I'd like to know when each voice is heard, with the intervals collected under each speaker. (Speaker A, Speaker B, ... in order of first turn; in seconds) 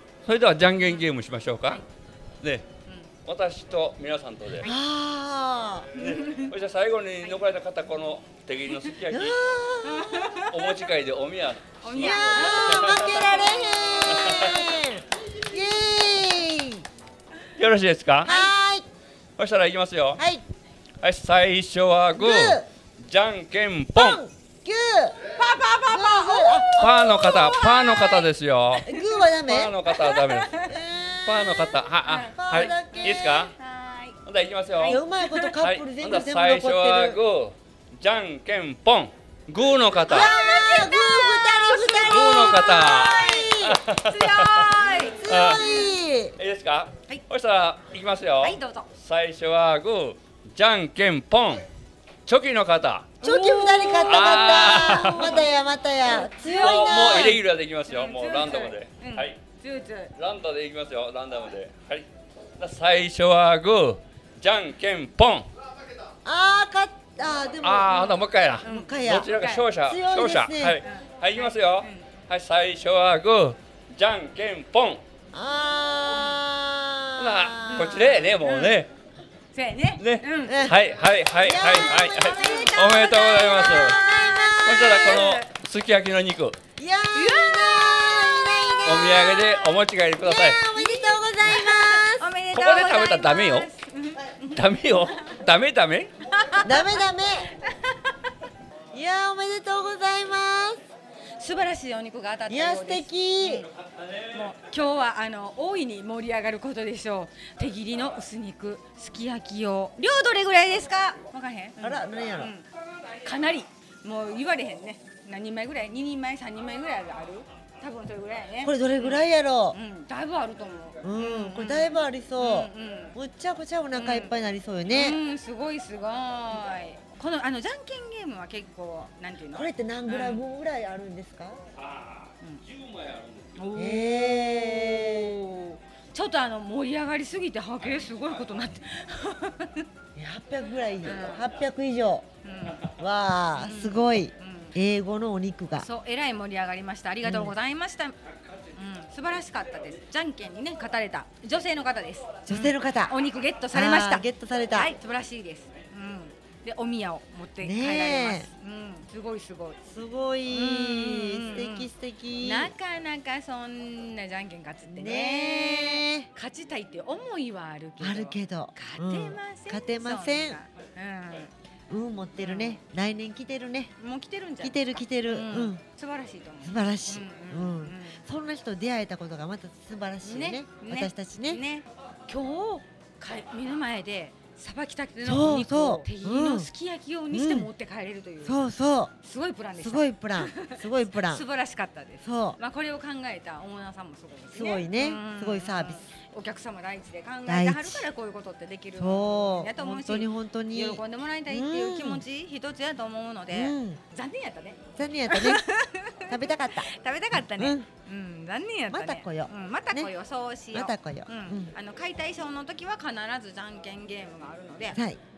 Speaker A: 0.2-1.8, 2.4-2.7, 3.2-4.7, 6.0-9.4, 10.5-13.3, 14.1-14.6, 17.6-18.3, 19.4-20.2, 21.0-24.2, 26.8-28.9, 29.4-30.6, 31.3-33.5, 34.3-35.0, 35.6-40.3, 42.0-45.6, 46.4-51.6, 52.3-53.2, 54.0-55.5, 56.5-59.4, 60.2-62.1, 62.6-65.5, 67.6-75.0, 77.2-78.9, 80.0-84.0, 84.6-86.6, 88.8-90.6, 92.5-93.7, 94.5-96.1, 131.8-133.6
Speaker B: 2.9-3.1, 6.0-6.5, 9.8-10.8, 11.8-14.5, 18.2-18.5, 25.4-28.2, 29.9-30.7, 32.0-34.2, 34.8-35.6, 40.0-43.1, 43.9-45.9, 48.4-48.9, 53.2-55.5, 56.1-60.1, 68.6-69.7, 70.8-72.1, 77.7-78.8, 79.5-80.7, 81.7-85.5, 87.1-88.8, 90.7-94.7, 96.2-97.1, 97.6-98.2, 101.4-103.7, 104.3-112.7, 113.2-123.2, 123.9-124.3, 124.9-130.4, 133.6-139.9, 141.0-141.5, 142.4-142.9, 143.5-144.8, 145.8-148.2, 148.7-159.8, 160.5-171.5, 172.4-172.8, 174.0-178.2, 180.2-188.6, 189.2-215.0
Speaker C: 4.6-6.0, 9.1-10.4, 11.9-16.9, 18.2-18.9, 20.2-20.4, 22.1-22.7, 23.9-25.2, 25.9-28.2, 28.8-29.8, 30.6-33.5, 34.8-37.2, 40.0-43.8, 45.0-46.4, 53.2-57.4, 66.2-70.8, 75.3-78.2, 80.5-80.8, 81.4-85.4, 86.8-89.6, 90.2-92.3, 96.6-97.5, 98.9-100.8, 102.5-103.7, 111.8-112.5, 118.6-119.8, 121.0-125.2, 129.5-131.6, 133.8-135.4, 140.2-142.3, 143.0-145.9, 147.2-147.6, 152.5-153.2, 153.7-154.9, 157.6-158.5, 159.8-162.7, 164.9-166.3, 168.0-170.6, 171.9-173.9, 174.6-175.8, 176.6-181.6, 185.2-186.7, 187.3-187.7, 188.4-189.2, 189.8-191.4, 192.2-192.6, 194.5-196.0, 197.5-198.1, 199.0-202.2, 203.5-204.0, 205.0-205.7, 206.3-207.9, 208.9-210.1, 210.7-211.7, 214.9-215.2